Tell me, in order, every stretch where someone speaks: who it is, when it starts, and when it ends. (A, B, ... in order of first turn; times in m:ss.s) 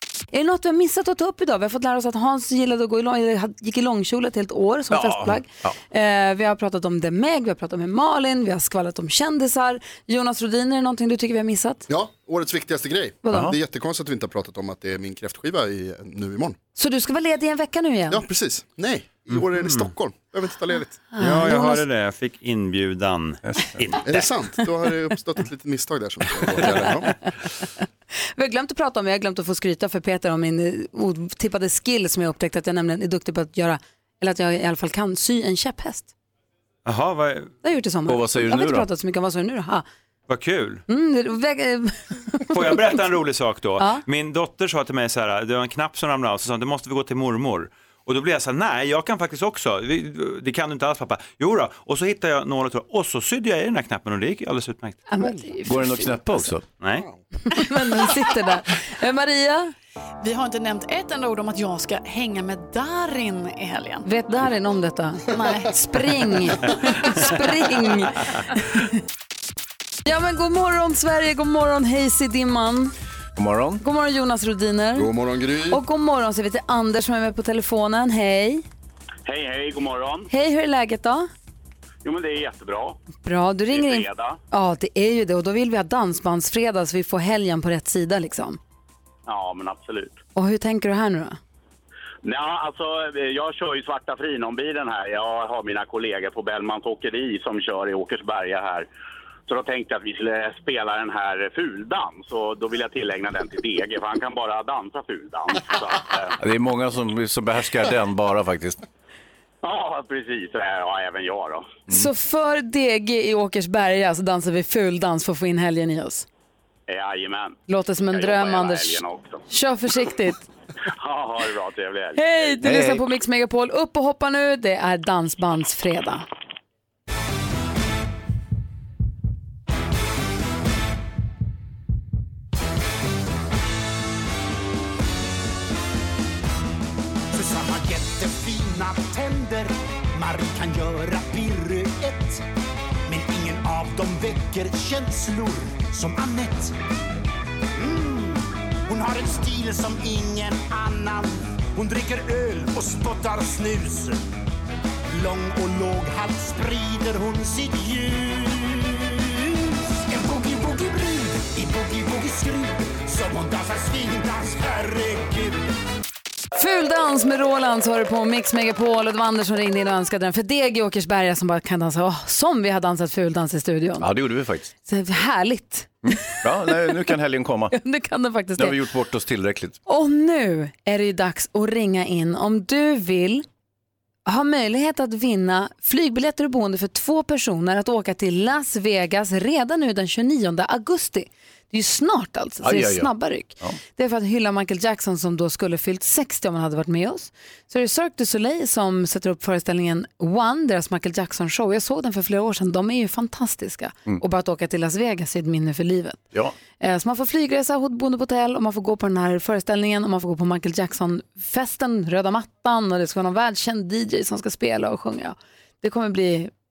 0:00.3-0:11.8 A
0:04.9-0:05.7 B
0:11.9-0:16.6 C
0:13.2-0:13.5 A
0:16.8-0:18.2 A
0:18.1-0:21.0 C
0:19.3-0:19.9 D
0:21.2-0:21.8 A
0:21.2-0:24.4 D
0:24.0-0:27.1 C
0:28.4-0:36.1 A
0:36.8-0:37.5 D
0:37.6-0:39.8 A
0:38.1-0:38.9 B
0:40.3-0:40.8 D
0:40.9-0:41.9 A
0:42.5-0:55.0 D
0:55.1-0:56.1 A
0:55.6-0:56.6 B
0:57.5-0:59.7 A
1:00.2-1:04.0 E
1:04.0-1:08.2 A
1:05.3-1:05.8 E
1:10.1-1:12.9 A
1:13.4-1:13.8 B
1:13.8-1:15.1 A
1:15.0-1:15.8 C
1:15.7-1:18.6 A
1:19.3-1:20.3 F
1:20.3-1:21.2 A
1:22.0-1:23.0 F
1:23.2-1:28.6 A
1:23.7-1:24.4 F
1:29.3-1:30.2 F
1:30.4-1:31.4 A
1:32.2-1:38.9 F
1:39.5-1:46.3 F
1:46.4-1:48.8 B
1:49.6-1:51.7 F
1:51.9-1:56.3 A
1:56.9-1:57.6 F
1:57.7-2:00.4 A
1:58.1-1:59.4 F
2:01.0-2:02.3 F
2:02.2-2:06.2 A
2:02.6-2:03.0 B
2:17.3-2:22.4 G
2:23.1-2:26.8 G
2:27.8-2:34.2 G
2:35.1-2:39.2 G
2:40.1-2:45.7 G
2:46.6-2:54.0 A
2:54.0-2:54.7 B
2:54.9-2:55.9 A
2:56.3-2:57.8 B
2:57.7-2:58.8 A
2:58.6-2:59.8 B
2:59.9-3:03.4 A
3:04.3-3:26.2 A
3:12.6-3:13.8 B
3:26.8-3:36.5 A